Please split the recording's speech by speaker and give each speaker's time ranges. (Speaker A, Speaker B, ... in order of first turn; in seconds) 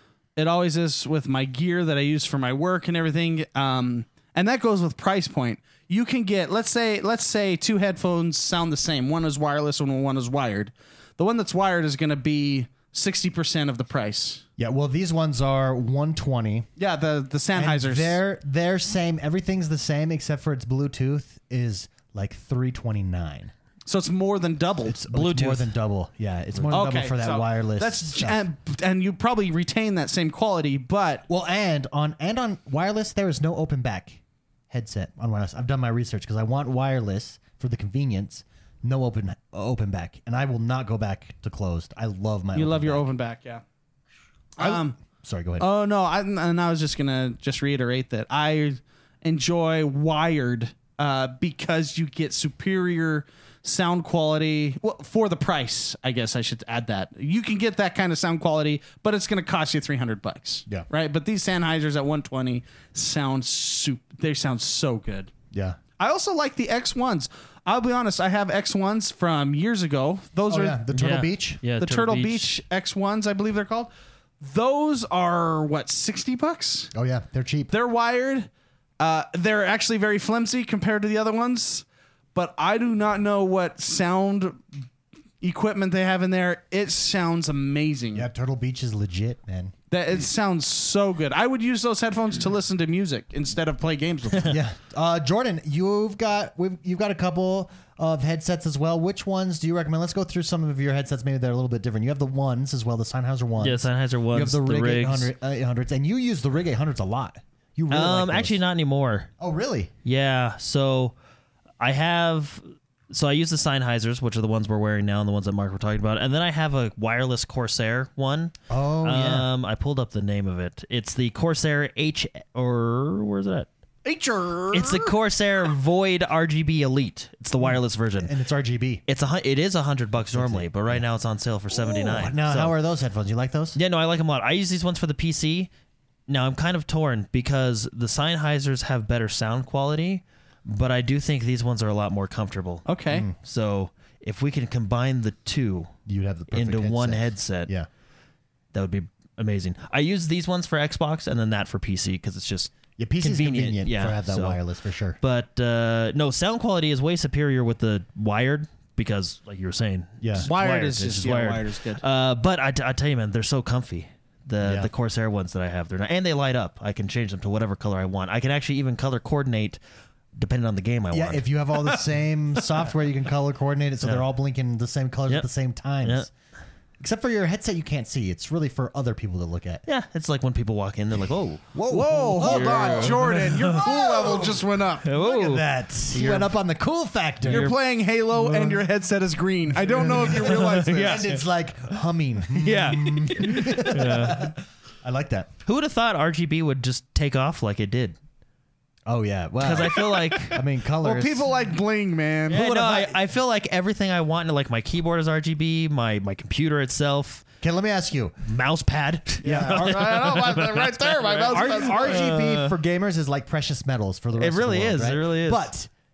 Speaker A: 0.4-14.4, 16.8-18.2, 23.9-25.0, 26.7-31.2, 42.5-43.6, 44.6-45.0, 45.6-65.3, 66.0-70.9, 71.8-73.9, 74.4-76.9, 77.7-78.5, 79.0-84.6, 85.4-88.3, 89.9-94.6, 124.0-125.2, 142.9-143.3, 160.4-162.0, 181.9-185.1, 187.4-191.2, 201.0-202.7, 209.4-212.2
Speaker B: 14.6-16.7, 17.6-23.5, 24.9-28.4, 31.3-34.2, 34.7-43.0, 44.6-45.7, 65.5-65.8, 70.5-71.6, 76.9-77.7, 88.2-89.7, 94.4-108.6, 109.4-109.9, 118.7-119.5, 127.6-129.0, 130.3-131.1, 131.7-133.8, 143.1-143.4, 146.1-147.9, 153.0-155.2, 160.2-160.5, 164.6-164.9, 171.1-176.3, 177.0-179.8, 181.7-187.7, 189.8-195.5, 199.1-201.5, 202.5-203.2, 207.6-208.4, 209.4-210.3, 211.5-215.9
Speaker C: 25.1-25.7, 70.9-72.5, 103.6-105.3, 107.9-109.3, 110.0-111.2, 111.8-123.7, 124.7-128.3, 129.1-132.7, 133.8-135.7, 136.3-145.9, 146.5-147.7, 148.7-154.6, 155.2-169.8, 170.3-171.4, 179.9-181.8, 182.4-183.9, 185.0-186.5, 187.4-187.8, 188.4-188.8, 190.1-191.4, 192.5-194.5, 195.7-198.2, 199.6-200.6, 202.5-207.4, 208.4-212.7, 214.3-215.7